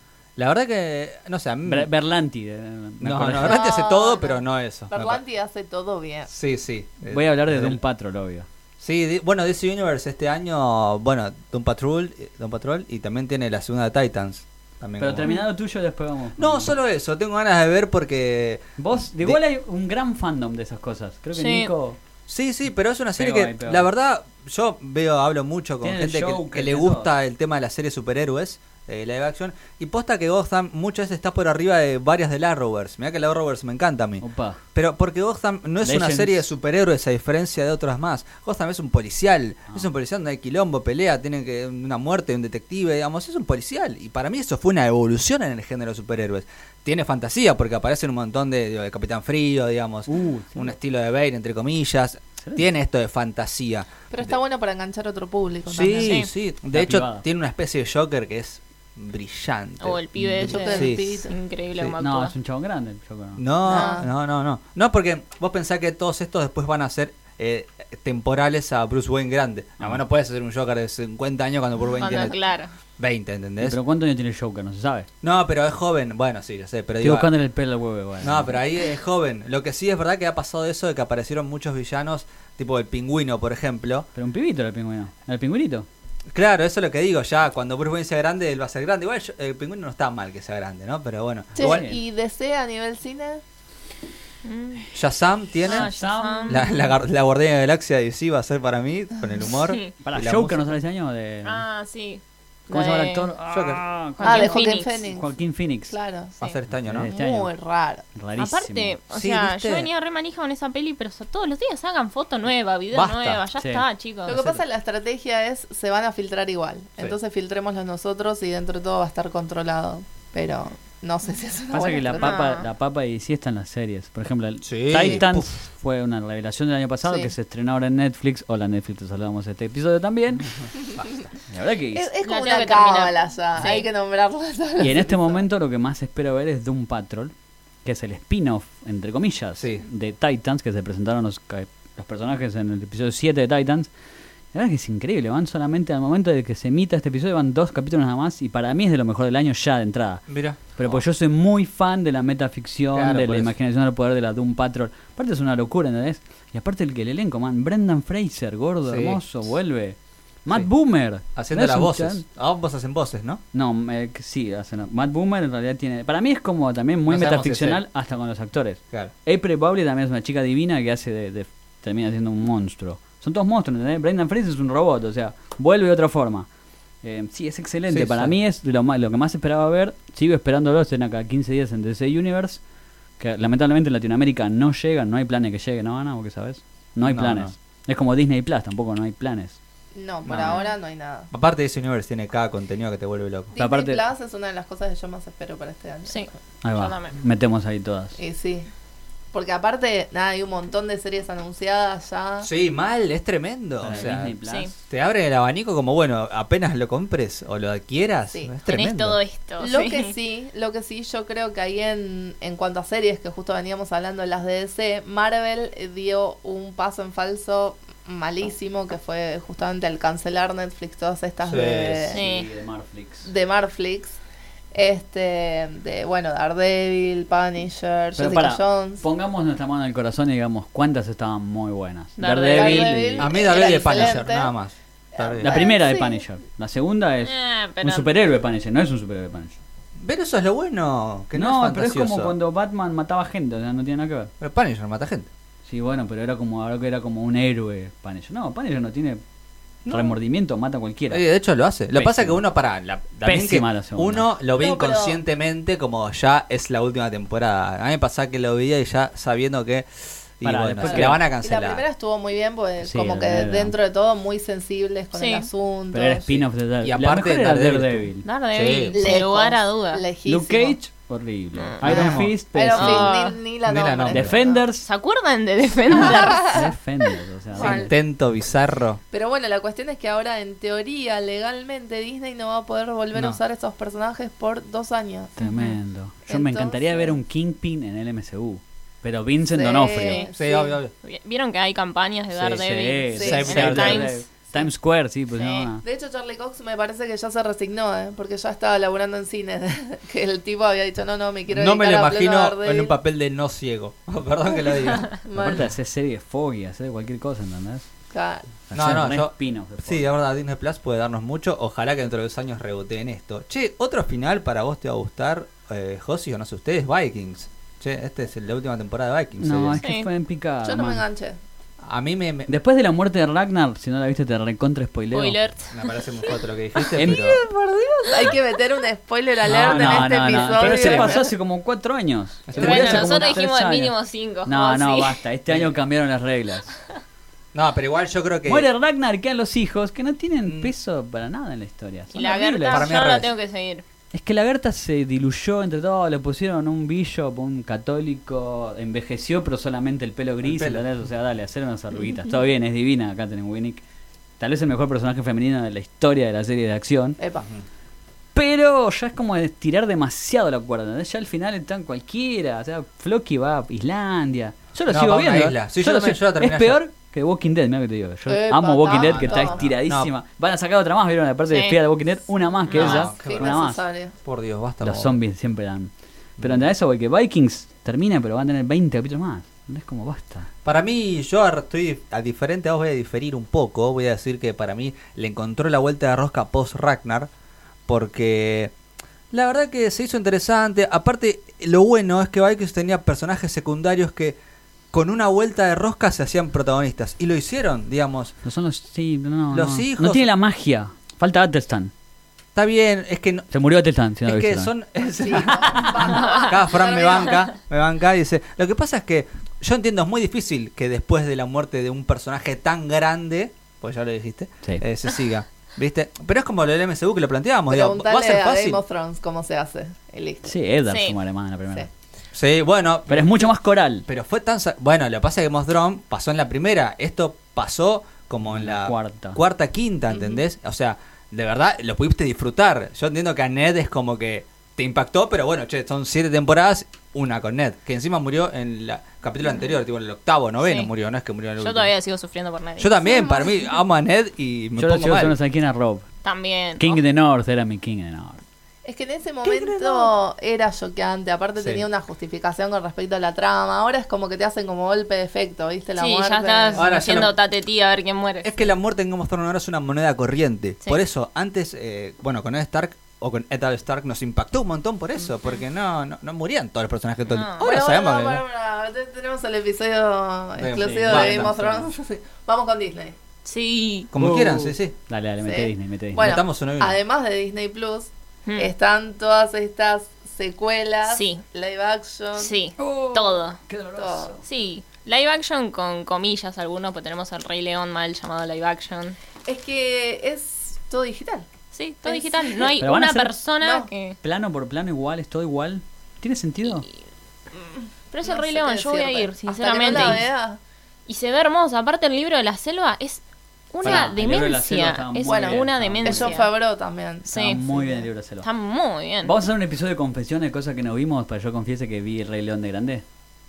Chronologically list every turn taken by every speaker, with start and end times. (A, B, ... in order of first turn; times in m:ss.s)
0:00.4-0:01.9 A
0:01.6-0:03.6 B
0:03.0-0:05.2 A
0:03.4-0:06.3 C
0:06.3-0:07.8 A
0:07.1-0:08.5 B
0:08.8-0:15.3 A
0:15.0-0:16.7 B
0:16.4-0:19.4 A
0:18.8-0:22.0 B
0:21.4-0:21.7 D
0:22.3-0:53.9 A
0:23.2-0:23.9 B
0:25.8-0:27.1 B
0:34.2-0:34.6 B
0:35.8-0:36.4 B
0:50.1-0:50.7 B
0:52.4-0:52.7 B
0:54.1-0:56.2 C
0:55.7-1:01.2 A
0:55.9-0:56.3 D
0:56.7-0:57.2 B
0:59.8-1:02.3 D
1:00.4-1:01.4 C
1:02.0-1:03.4 B
1:03.4-1:12.4 A
1:03.6-1:04.1 C
1:12.0-1:12.7 D
1:12.0-1:12.3 C
1:13.0-1:13.8 A
1:13.6-1:15.1 B
1:15.2-1:17.3 A
1:17.0-1:18.6 B
1:18.2-1:24.1 A
1:24.1-1:25.9 B
1:26.3-1:31.9 A
1:31.6-1:33.4 C
1:31.6-1:32.0 B
1:34.4-1:34.8 D
1:34.9-1:35.9 A
1:35.6-1:36.7 D
1:35.7-1:36.7 B
1:36.5-1:40.8 A
1:40.0-1:41.6 B
1:41.4-1:43.3 D
1:42.7-1:45.9 B
1:43.5-1:43.8 A
1:44.2-1:45.0 D
1:44.2-1:45.3 C
1:45.9-1:46.4 C
1:46.4-1:47.1 A
1:46.8-1:47.5 B
1:47.0-1:48.1 C
1:48.1-1:48.9 B
1:48.4-1:54.4 D
1:49.1-1:49.9 A
1:52.9-1:53.4 A
1:53.6-1:53.8 B
1:54.2-2:02.4 C
2:01.7-2:10.5 B
2:02.2-2:02.6 D
2:04.6-2:05.5 A
2:07.1-2:07.3 C
2:11.5-2:12.1 B
2:11.9-2:15.4 C
2:12.2-2:13.9 D
2:14.8-2:17.3 B
2:17.8-2:23.9 B
2:19.6-2:19.8 A
2:24.5-2:42.2 B
2:30.3-2:31.0 A
2:32.9-2:33.5 A
2:38.9-2:39.2 A
2:41.4-2:43.4 A
2:43.5-2:56.5 B
2:47.1-2:47.8 A
2:57.0-3:02.6 B
2:57.9-2:58.4 A
3:03.2-3:09.6 B
3:07.0-3:07.5 A
3:09.9-3:11.3 C
3:10.2-3:10.6 A
3:10.4-3:10.7 D
3:11.3-3:13.5 A
3:13.6-3:16.3 C
3:13.6-3:14.0 B
3:16.1-3:17.1 D
3:16.6-3:18.2 B
3:18.2-3:18.7 C
3:19.3-3:22.5 C
3:22.4-3:24.3 A
3:23.8-3:24.8 B
3:24.4-3:24.7 D
3:24.9-3:29.2 A
3:28.7-3:30.1 D
3:29.6-3:42.2 C
3:41.4-3:42.1 A
3:42.1-3:42.5 D
3:42.1-3:43.3 B
3:43.2-3:44.2 C
3:44.7-3:49.0 C
3:48.2-3:54.1 B
3:52.2-3:53.1 D
3:52.4-3:54.5 C
3:53.2-3:55.6 A
3:55.1-3:56.2 C
3:55.4-3:59.6 B
3:57.2-3:58.1 D
4:00.0-4:02.4 A
4:01.4-4:04.3 B
4:04.4-4:05.3 A
4:05.7-4:09.2 B
4:09.8-4:10.1 A
4:09.9-4:11.2 B
4:11.1-4:21.8 A
4:11.9-4:12.4 B
4:13.2-4:14.3 B
4:14.6-4:15.2 C
4:20.4-4:21.2 B
4:20.8-4:26.4 C
4:22.8-4:23.7 B
4:25.1-4:25.5 D
4:25.9-4:28.2 B
4:26.8-4:29.1 A
4:28.2-4:30.0 D
4:28.9-4:30.8 C
4:30.2-4:33.1 B
4:31.6-4:31.8 D
4:31.8-4:32.3 A
4:31.8-4:34.6 C
4:32.7-4:33.4 D
4:33.6-4:34.4 A
4:34.1-4:34.9 B
4:34.8-4:36.6 D
4:36.0-4:36.7 C
4:36.0-4:37.9 B
4:37.5-4:37.9 C
4:37.6-4:39.0 A
4:39.1-4:45.4 C
4:43.1-4:43.4 A
4:45.4-4:50.2 B
4:45.4-4:45.8 D
4:46.3-4:47.2 C
4:49.5-4:50.8 C
4:50.0-4:50.3 D
4:50.4-4:50.9 A
4:51.0-4:54.2 D
4:52.3-4:55.8 B
4:53.2-4:53.7 C
4:53.2-4:54.1 A
4:55.4-4:55.6 D
4:55.8-5:03.0 C
5:01.5-5:05.1 A
5:04.9-5:05.7 C
5:05.3-5:07.8 B
5:08.1-5:08.5 C
5:08.7-5:10.1 B
5:08.7-5:19.8 A
5:19.4-5:21.0 B
5:19.8-5:20.1 D
5:20.6-5:21.4 C
5:21.8-5:22.6 A
5:22.5-5:25.4 B
5:25.1-5:26.0 D
5:25.7-5:27.4 A
5:27.0-5:27.3 B
5:27.0-5:31.3 C
5:29.4-5:31.2 A
5:29.5-5:33.9 B
5:32.5-5:33.4 A
5:32.6-5:35.2 D
5:34.4-5:36.7 B
5:37.5-5:38.7 A
5:38.4-5:42.9 B
5:40.4-5:40.7 A
5:42.1-5:43.8 D
5:42.7-5:43.3 A
5:44.1-5:53.8 B
5:50.4-5:50.8 A
5:54.4-5:57.2 B
5:57.2-5:57.5 C
5:58.3-6:13.8 B
6:04.9-6:06.8 A
6:08.3-6:09.6 C
6:08.9-6:10.1 A
6:11.5-6:11.8 D
6:12.7-6:13.1 D
6:12.7-6:13.5 A
6:12.8-6:14.1 C
6:14.2-6:15.2 A
6:14.8-6:20.5 B
6:16.4-6:16.6 A
6:20.6-6:27.3 A
6:27.9-6:28.7 A
6:29.3-6:34.4 A
6:34.9-6:38.4 A
6:38.4-6:41.9 B
6:39.5-6:40.3 A
6:42.6-6:43.5 A
6:43.5-6:44.7 B
6:44.2-6:58.8 A
6:45.2-6:47.4 C
6:45.6-6:46.0 B
6:46.1-6:46.6 D
6:57.7-7:00.5 C
7:00.4-7:01.9 B
7:00.9-7:01.2 D
7:02.3-7:03.5 A
7:03.1-7:04.1 B
7:04.1-7:21.9 A
7:08.4-7:09.4 B
7:10.1-7:10.4 C
7:20.6-7:20.9 D
7:21.6-7:23.2 D
7:22.8-7:25.4 A
7:23.1-7:23.5 C
7:24.8-7:26.1 B
7:26.2-7:27.0 D
7:26.8-7:28.4 B
7:28.8-7:37.2 C
7:29.4-7:30.1 A
7:31.6-7:31.8 A
7:36.0-7:38.5 D
7:36.8-7:37.4 A
7:38.4-7:48.4 A
7:47.3-7:47.7 D
7:47.6-7:53.2 C
7:50.6-7:51.6 A
7:50.7-7:51.9 B
7:53.4-7:54.1 D
7:54.1-7:54.9 A
7:54.2-7:56.2 B
7:55.4-8:02.5 C
7:56.2-7:57.0 A
7:58.5-7:58.7 D
8:01.1-8:01.4 D
8:02.4-8:03.6 D
8:02.8-8:04.4 B
8:04.0-8:04.4 C
8:04.4-8:09.2 D
8:09.4-8:11.4 C
8:11.7-8:14.2 D
8:12.0-8:12.7 C
8:12.8-8:13.4 B
8:13.6-8:13.9 C
8:14.2-8:16.8 B
8:18.1-8:20.3 D
8:18.2-8:20.6 C
8:21.1-8:23.2 D
8:23.7-8:26.5 D
8:23.8-8:26.4 B
8:25.3-8:28.1 C
8:27.2-8:27.6 D
8:27.3-8:28.5 B
8:28.4-8:29.3 D
8:29.2-8:33.0 B